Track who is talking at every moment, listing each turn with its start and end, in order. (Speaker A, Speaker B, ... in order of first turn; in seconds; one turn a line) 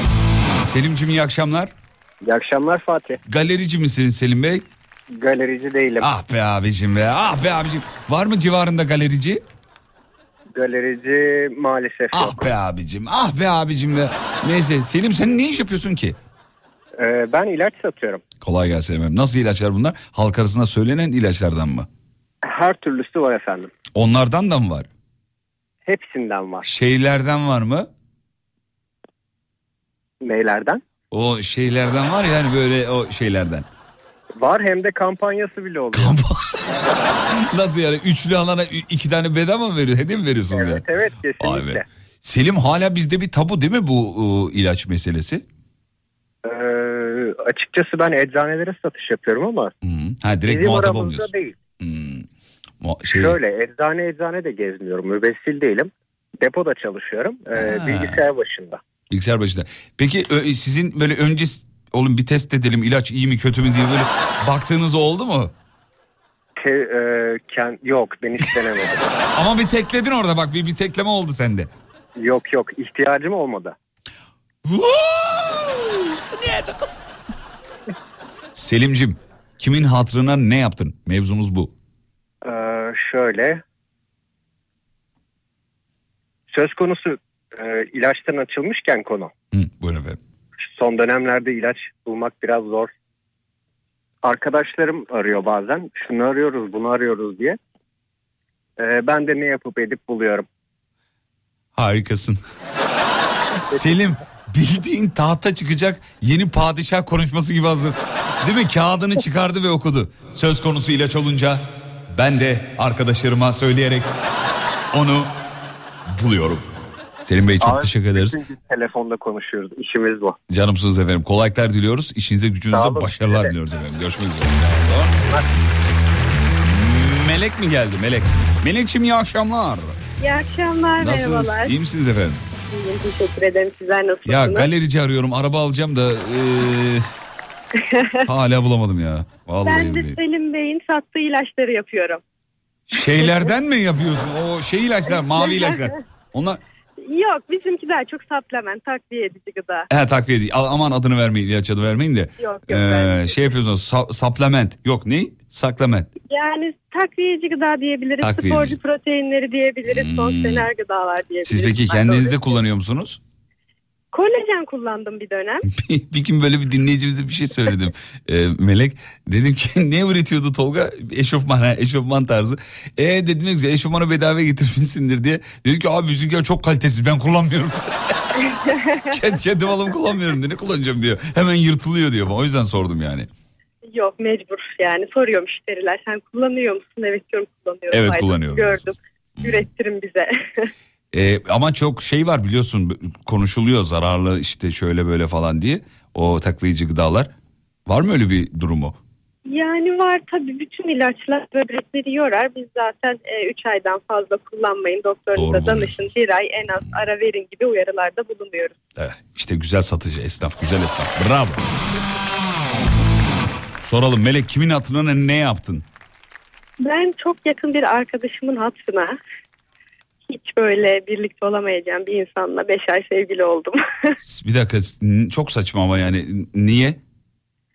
Speaker A: 0.6-1.7
Speaker B: 2.2-3.2
Speaker A: 3.2-4.6
Speaker B: 5.2-6.1
Speaker A: 6.0-9.4
Speaker B: 10.6-12.4
Speaker A: 12.1-16.2
Speaker B: 17.0-18.2
Speaker A: 18.4-21.9
Speaker B: 22.4-23.7
Speaker A: 23.9-24.9
Speaker B: 25.9-26.7
Speaker A: 26.6-27.9
Speaker B: 30.2-30.8
Speaker A: 31.1-33.7
Speaker B: 34.4-36.2
Speaker A: 35.9-40.8
Speaker B: 40.5-41.8
Speaker A: 41.4-45.4
Speaker B: 46.4-49.7
Speaker A: 49.8-51.3
Speaker B: 50.5-51.6
Speaker A: 51.8-52.3
Speaker A: 52.8-53.4
Speaker B: 53.1-58.8
Speaker A: 57.6-58.2
Speaker A: 59.1-65.5
Speaker B: 66.6-69.1
Speaker A: 69.3-71.7
Speaker B: 72.2-73.7
Speaker A: 74.6-77.0
Speaker A: 78.5-81.7
Speaker B: 82.4-83.6
Speaker B: 86.5-89.3
Speaker A: 89.5-90.2
Speaker B: 90.6-92.9
Speaker B: 94.2-97.6
Speaker B: 98.8-100.5
Speaker A: 101.8-102.4
Speaker A: 103.5-114.1
Speaker A: 114.9-115.3
Speaker A: 116.1-116.7
Speaker A: 117.2-118.4
Speaker B: 117.6-120.3
Speaker A: 120.5-125.1
Speaker B: 122.7-123.5
Speaker B: 125.2-125.5
Speaker A: 126.7-130.0
Speaker C: 130.2-131.7
Speaker A: 131.0-132.4
Speaker C: 132.7-134.7
Speaker A: 134.2-137.1
Speaker C: 137.8-138.3
Speaker A: 138.2-140.2
Speaker C: 139.6-142.2
Speaker A: 142.9-146.6
Speaker C: 145.1-146.0
Speaker C: 147.0-149.9
Speaker A: 149.9-156.1
Speaker C: 152.4-153.5
Speaker C: 156.3-162.6
Speaker A: 158.2-158.8
Speaker A: 159.9-160.7
Speaker A: 161.4-163.2
Speaker C: 164.1-165.6
Speaker A: 165.6-178.2
Speaker C: 178.5-179.2
Speaker A: 179.1-183.3
Speaker C: 183.9-190.7
Speaker A: 187.9-188.9
Speaker A: 189.4-189.7
Speaker A: 191.1-197.3
Speaker A: 197.8-199.0
Speaker C: 199.4-208.7
Speaker A: 205.3-206.1
Speaker A: 209.0-211.7
Speaker A: 213.8-215.8
Speaker C: 216.8-219.2
Speaker C: 220.3-224.2
Speaker A: 224.2-227.0